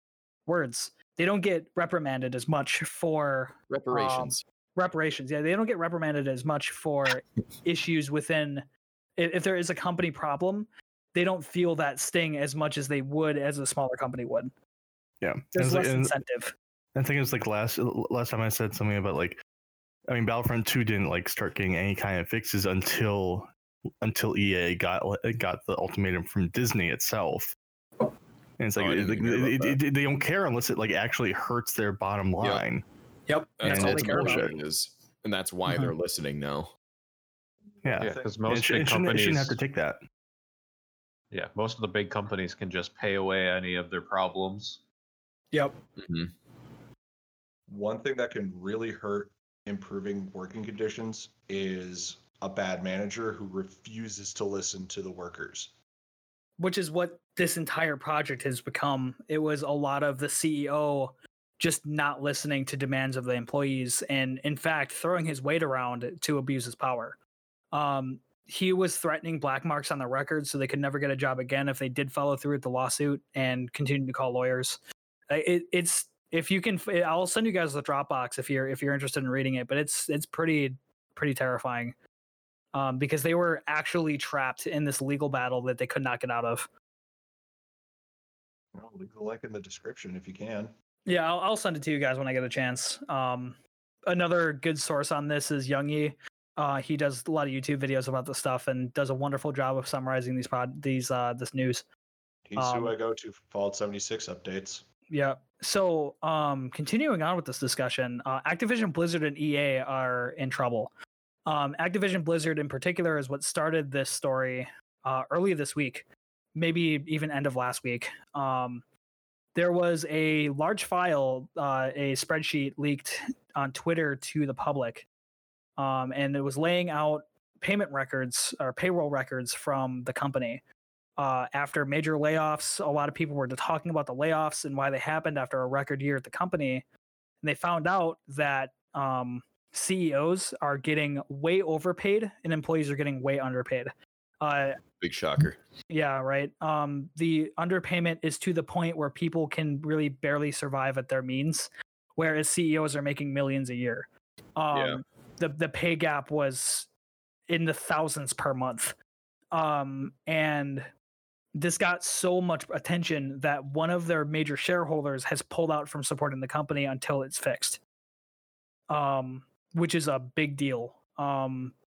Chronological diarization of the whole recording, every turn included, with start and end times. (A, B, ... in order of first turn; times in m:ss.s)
0:00.5-0:08.6 A
0:03.7-0:04.4 B
0:09.2-0:14.5 A
0:15.2-0:16.1 C
0:15.5-0:16.5 A
0:16.9-0:19.4 C
0:20.1-0:23.5 C
0:24.0-0:27.6 C
0:28.6-0:32.8 C
0:28.8-0:29.8 B
0:33.3-0:34.4 A
0:33.6-0:36.7 B
0:33.6-0:34.5 C
0:37.8-0:40.0 C
0:37.9-0:38.4 D
0:38.0-0:39.6 E
0:41.3-0:44.8 E
0:46.0-0:46.3 B
0:47.7-0:55.7 D
0:56.6-1:07.2 A
1:07.7-1:21.9 A
1:22.7-1:26.7 A
1:28.7-1:30.7 D
1:31.0-1:33.6 A
1:34.1-1:41.8 A
1:42.5-1:44.8 D
1:42.6-1:42.9 A
1:45.1-1:50.9 A
1:51.4-1:58.8 A
1:59.5-2:05.1 A
2:05.8-2:10.6 A
2:11.2-2:16.8 A
2:17.4-2:24.8 A
2:25.0-2:25.6 B
2:25.9-2:36.9 A
2:34.7-2:35.0 B
2:37.5-2:39.0 A
2:39.5-2:40.9 A
2:41.6-2:47.8 A
2:48.9-2:51.7 A